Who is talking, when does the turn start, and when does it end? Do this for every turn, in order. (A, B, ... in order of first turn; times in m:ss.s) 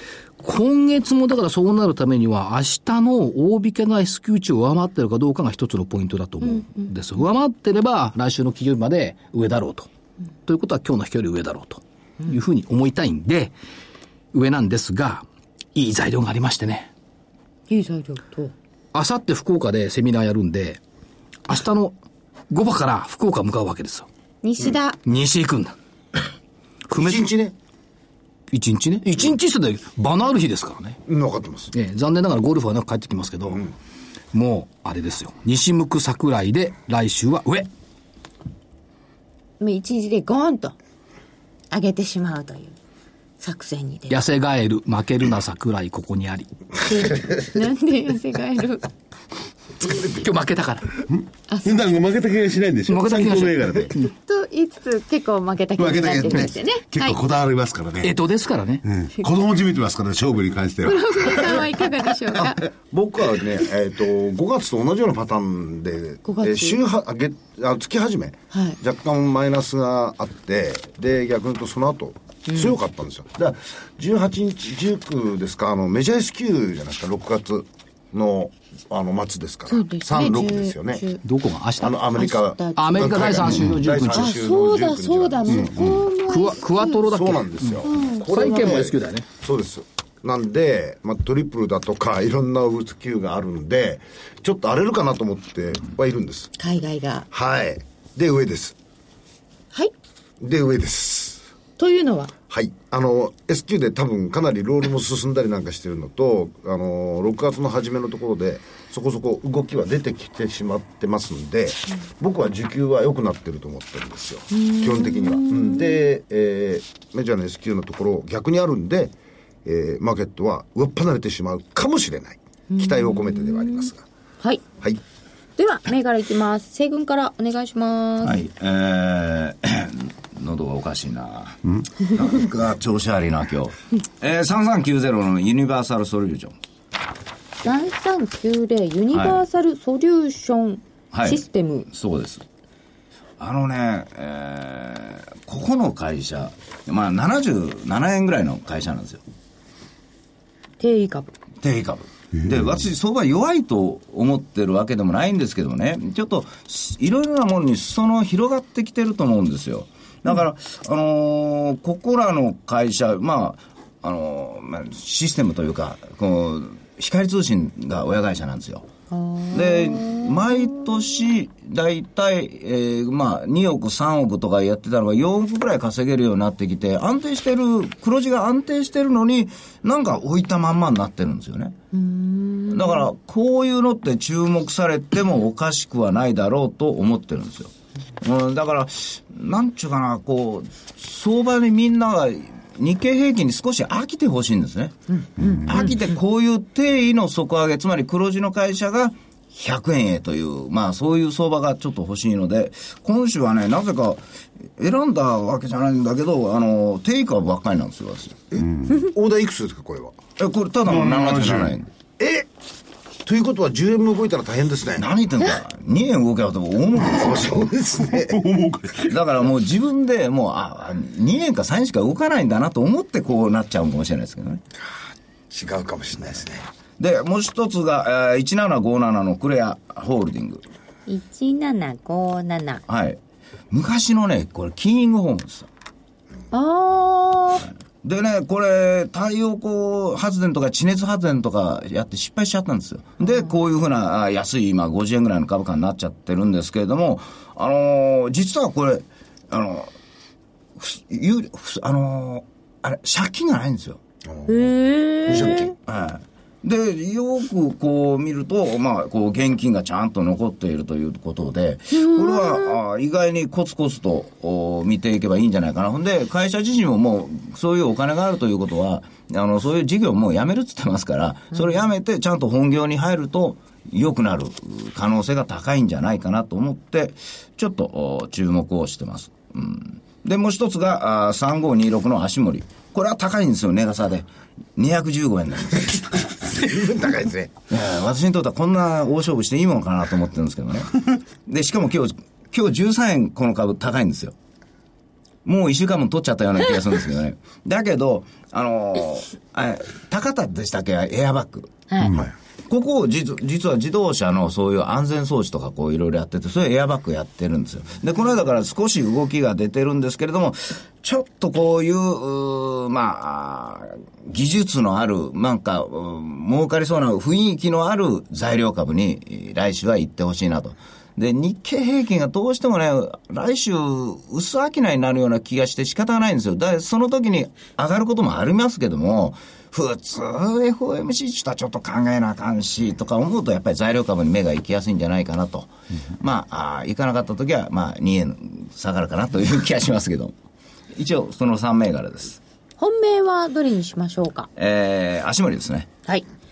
0:00.4-0:09.9 A
0:06.4-0:06.9 B
0:10.4-0:13.5 A
0:14.3-0:16.9 A
0:17.7-0:18.5 B
0:18.9-0:20.8 A
0:21.4-0:22.0 A
0:22.5-0:24.1 A
0:24.4-0:25.0 B
0:25.0-0:25.8 A
0:26.9-0:27.3 A
0:26.9-0:27.5 C
0:28.5-0:31.0 A
0:31.1-0:31.7 C
0:31.7-0:33.7 A
0:34.3-0:37.7 A
0:39.6-0:40.8 B
0:41.7-0:42.8 B
0:43.4-0:44.2 B
0:44.1-0:46.5 A
0:46.8-0:48.9 B
0:50.0-0:51.0 A
0:51.1-0:54.0 D
0:52.9-0:54.1 A
0:54.0-0:57.2 B
0:55.8-0:58.2 D
0:58.0-0:58.8 A
0:58.8-1:01.7 D
1:00.8-1:02.6 B
1:02.4-1:21.0 C
1:06.2-1:06.8 B
1:08.5-1:08.8 B
1:12.5-1:12.7 B
1:19.7-1:21.2 B
1:21.2-1:22.0 A
1:21.8-1:25.8 C
1:22.1-1:23.4 B
1:22.8-1:24.3 A
1:24.1-1:27.1 B
1:25.5-1:26.1 D
1:26.2-1:29.2 A
1:27.0-1:36.5 C
1:27.8-1:28.8 B
1:36.6-1:37.3 B
1:37.3-1:38.8 C
1:40.4-1:41.4 C
1:41.8-1:42.3 B
1:42.5-1:59.1 C
1:54.5-1:56.1 B
1:59.6-2:04.0 C
2:02.7-2:03.9 B
2:05.6-2:08.4 B
2:08.2-2:16.5 E
2:17.6-2:21.9 B
2:19.1-2:19.4 E
2:21.1-2:22.4 E
2:23.4-2:29.2 E
2:30.8-2:31.3 B
2:31.6-2:48.9 E
2:49.1-2:50.9 B
2:49.5-3:01.8 E
3:01.9-3:03.1 B
3:02.7-3:24.2 E
3:15.1-3:15.9 B
3:15.4-3:15.9 D
3:24.8-3:28.4 E
3:28.6-3:29.0 D
3:28.9-3:30.2 C
3:30.4-3:31.8 E
3:30.8-3:31.8 D
3:32.2-3:32.5 C
3:33.2-3:35.1 C
3:35.0-3:37.7 E
3:37.1-3:38.4 C
3:38.0-3:39.2 D
3:39.1-3:44.6 E
3:45.5-3:46.6 C
3:47.0-3:50.6 E
3:51.1-3:52.8 B
3:52.9-3:53.2 E
3:53.7-3:55.7 E
3:56.5-3:57.7 B
3:58.0-4:09.9 E
4:10.8-4:14.0 E
4:14.2-4:14.7 C
4:14.5-4:15.7 B
4:15.2-4:15.7 C
4:15.3-4:46.4 E
4:21.9-4:22.8 B
4:46.5-4:47.5 C
4:47.7-4:54.3 E
4:55.4-5:01.8 E
5:02.0-5:02.3 D
5:02.7-5:40.3 E
5:40.9-5:42.4 E
5:42.8-5:44.5 B
5:44.6-5:45.9 E